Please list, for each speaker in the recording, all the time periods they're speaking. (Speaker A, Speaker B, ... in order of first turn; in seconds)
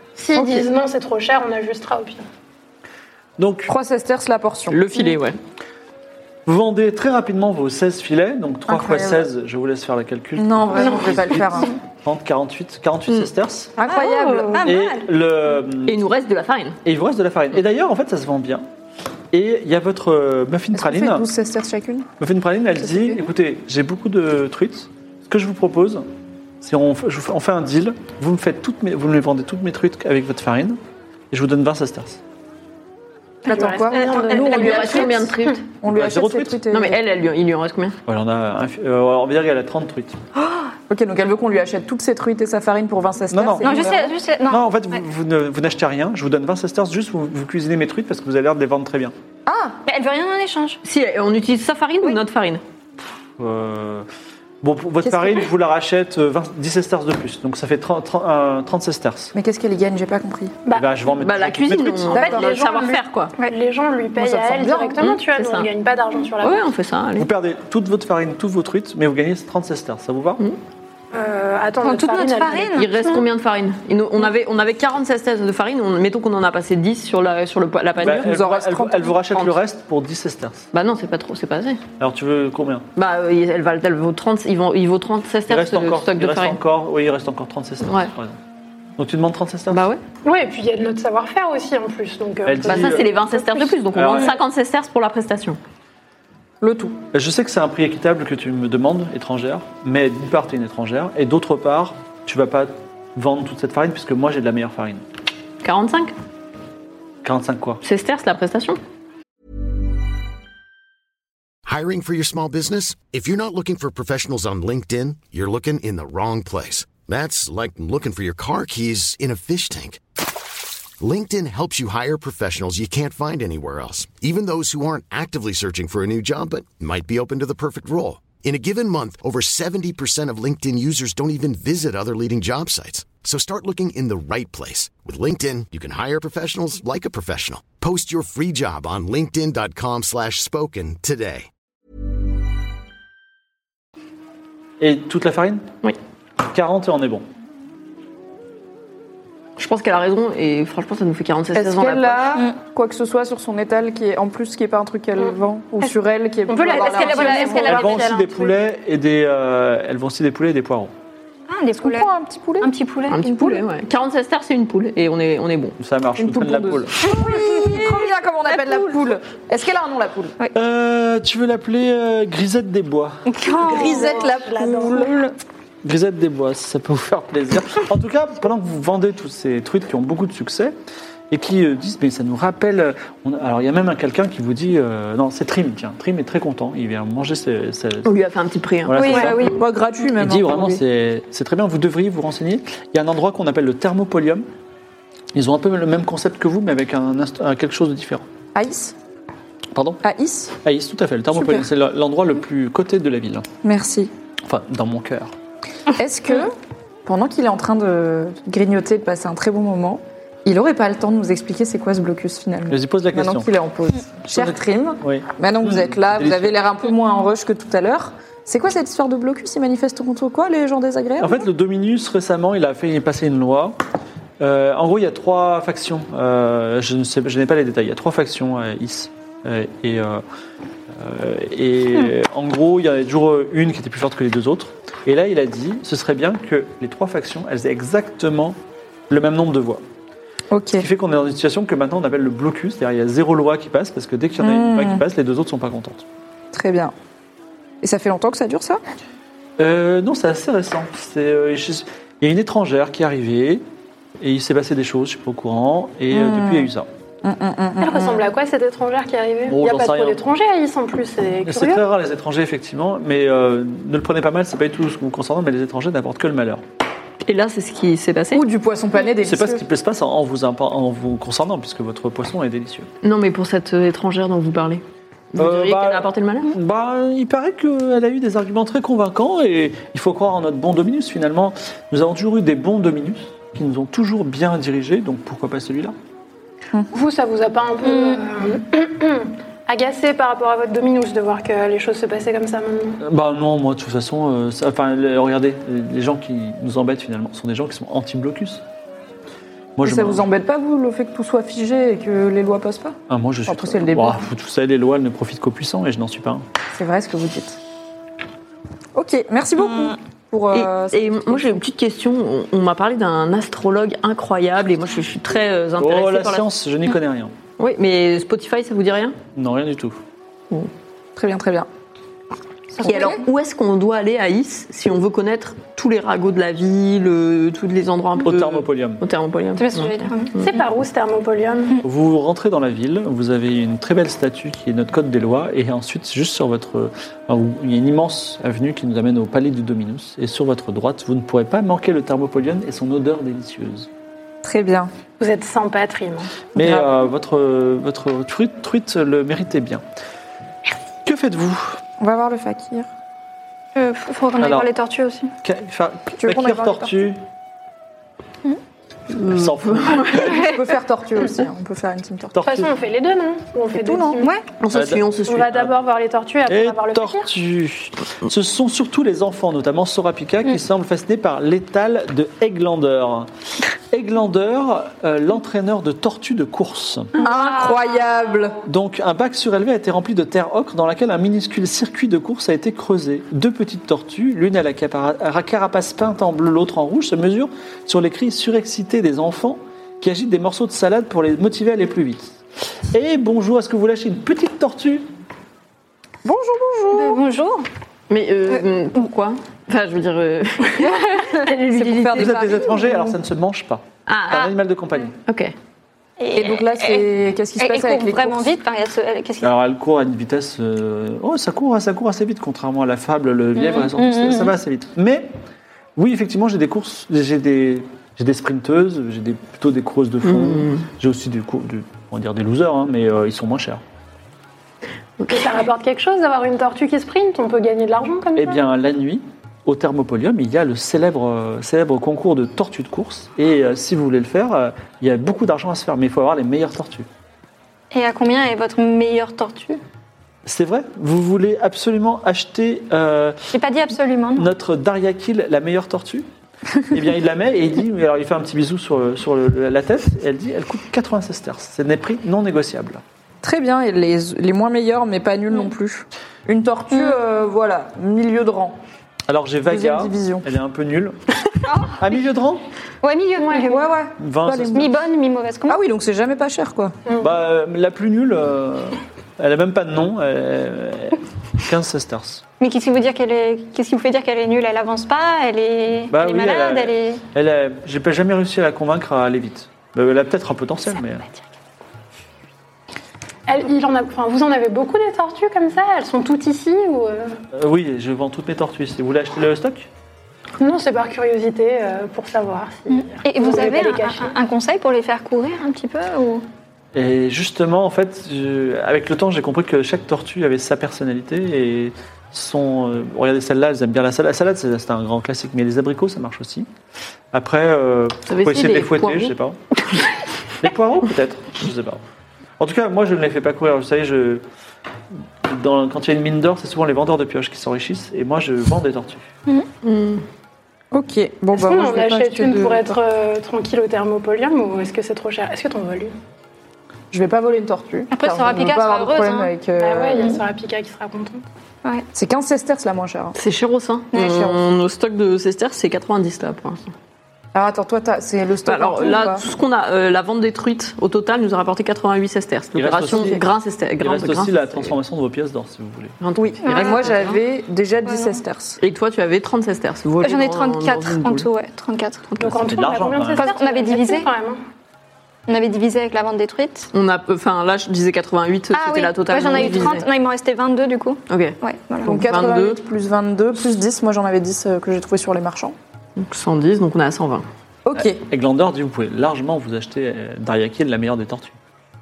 Speaker A: 0.2-2.2, 10.8-11.1, 13.9-14.6, 33.5-35.3, 60.7-60.9, 62.1-66.7, 71.1-73.2, 90.2-93.8, 156.5-158.6, 173.6-175.1, 257.8-261.9, 286.9-293.0, 330.4-331.8, 345.2-346.4, 362.4-364.3, 365.3-367.3, 425.3-428.6, 463.4-463.8, 483.5-487.4, 490.6-494.4, 521.5-526.1, 529.8-531.4, 552.4-554.6
Speaker B: 3.4-3.7, 6.5-13.8, 14.6-16.0, 16.9-18.7, 19.3-21.2, 22.2-26.1, 26.6-30.8, 31.3-32.2, 35.9-36.6, 38.1-40.2, 43.3-44.0, 44.5-49.1, 53.4-54.1, 54.6-59.3, 60.7-62.3, 67.2-70.4, 78.0-80.7, 82.0-82.9, 85.5-88.4, 89.0-89.8, 92.5-93.1, 93.9-94.3, 97.1-105.0, 107.2-107.8, 144.8-145.7, 146.5-147.2, 157.7-160.9, 165.8-166.9, 170.6-173.2, 175.8-180.7, 181.3-188.1, 188.9-189.5, 190.2-194.5, 195.3-198.2, 199.7-200.0, 200.6-203.5, 204.4-205.3, 212.7-213.5, 214.3-216.6, 221.2-223.8, 224.4-230.2, 230.9-238.6, 239.1-239.8, 240.8-246.1, 249.6-253.6, 254.2-256.9, 259.5-260.2, 261.4-266.6, 269.2-272.9, 275.4-285.9, 293.0-298.6, 299.8-300.2, 303.1-306.4, 315.8-317.3, 319.4-320.0, 328.2-329.0, 331.8-343.9, 346.6-349.8, 351.1-351.8, 354.4-354.7, 355.4-357.2, 359.2-360.4, 362.3-362.7, 364.7-365.8, 366.5-373.3, 373.9-377.1, 378.6-392.4, 392.9-395.1, 402.1-405.1, 409.4-415.3, 416.0-423.8, 428.4-437.1, 440.5-443.4, 444.4-446.3, 446.9-453.0, 459.3-461.2, 462.0-462.6, 464.2-464.9, 467.2-472.4, 476.1-481.2, 487.5-489.9, 496.9-506.7, 507.3-509.6, 510.6-512.0, 512.6-514.4, 515.4-519.3, 542.8-543.5, 544.0-546.2, 552.5-553.5, 568.0-571.6
Speaker C: 3.7-4.8, 8.7-9.3, 10.4-11.7, 13.8-14.7, 20.7-22.1, 33.5-37.0, 40.9-44.1, 49.5-49.8, 55.0-55.5, 59.3-60.5, 62.1-62.5, 64.2-65.0, 78.0-79.2, 96.6-97.0, 151.5-157.9, 161.8-162.7, 163.2-163.6, 166.2-170.3, 173.6-175.3, 189.4-190.8, 198.6-198.9, 200.0-200.6, 201.3-201.7, 203.6-204.1, 206.0-206.5, 207.1-221.4, 240.5-240.9, 244.4-245.0, 246.5-246.9, 247.8-248.8, 256.1-256.7, 257.2-258.2, 268.3-269.6, 299.8-304.3, 306.7-307.6, 308.9-311.6, 321.2-321.7, 322.8-323.2, 344.4-344.9, 346.6-346.9, 352.0-352.9, 356.2-357.1, 360.1-362.5, 363.7-364.2, 377.2-378.6, 396.2-397.2, 401.5-403.2, 406.3-408.6, 453.4-458.8, 459.7-460.5, 463.6-465.0, 465.7-467.0, 520.9-523.0, 527.1-530.4, 532.1-533.4, 537.5-539.4, 546.4-548.8, 562.0-565.8, 567.9-568.2
Speaker D: 4.7-5.4, 15.9-16.8, 34.4-35.6, 36.7-38.0, 50.8-52.6, 61.2-63.3, 65.0-65.7, 66.4-67.3, 72.8-78.4, 79.3-79.6, 80.7-81.8, 83.0-86.6, 87.8-88.1, 89.7-90.0, 92.7-95.6, 105.6-106.1, 107.8-108.8, 149.6-152.3, 163.1-165.8, 188.1-189.4, 267.2-268.4, 273.0-276.5, 310.5-316.5, 317.6-319.2, 322.8-330.5, 359.1-360.4, 364.6-365.6, 398.1-402.4, 404.1-404.5, 405.3-405.5, 420.2-420.9, 425.2-425.5, 508.3-509.3, 519.8-520.2, 533.4-536.9, 538.7-544.9, 546.2-547.4, 548.8-551.5, 552.3-552.7, 556.9-560.0, 561.3-561.5, 562.1-562.8, 566.2-567.5
Speaker E: 13.8-15.1, 33.5-35.0, 40.4-40.7, 43.6-45.0, 49.9-50.8, 71.8-72.9, 156.7-158.1, 161.5-162.1, 162.6-163.3, 173.3-174.2, 188.9-189.6, 287.9-288.2, 322.8-323.2, 329.6-330.4, 353.8-355.3, 377.2-378.6, 396.9-397.7, 406.2-409.5, 413.6-414.5, 437.9-439.8, 443.5-444.5, 461.6-462.0, 463.0-463.9, 464.7-465.8, 472.6-477.2, 492.9-496.4, 528.1-529.5, 534.1-534.6, 546.6-547.3, 548.1-548.3, 550.2-552.2, 553.4-554.3, 555.5-556.9, 558.7-562.2
Speaker F: 111.7-120.0, 121.0-141.5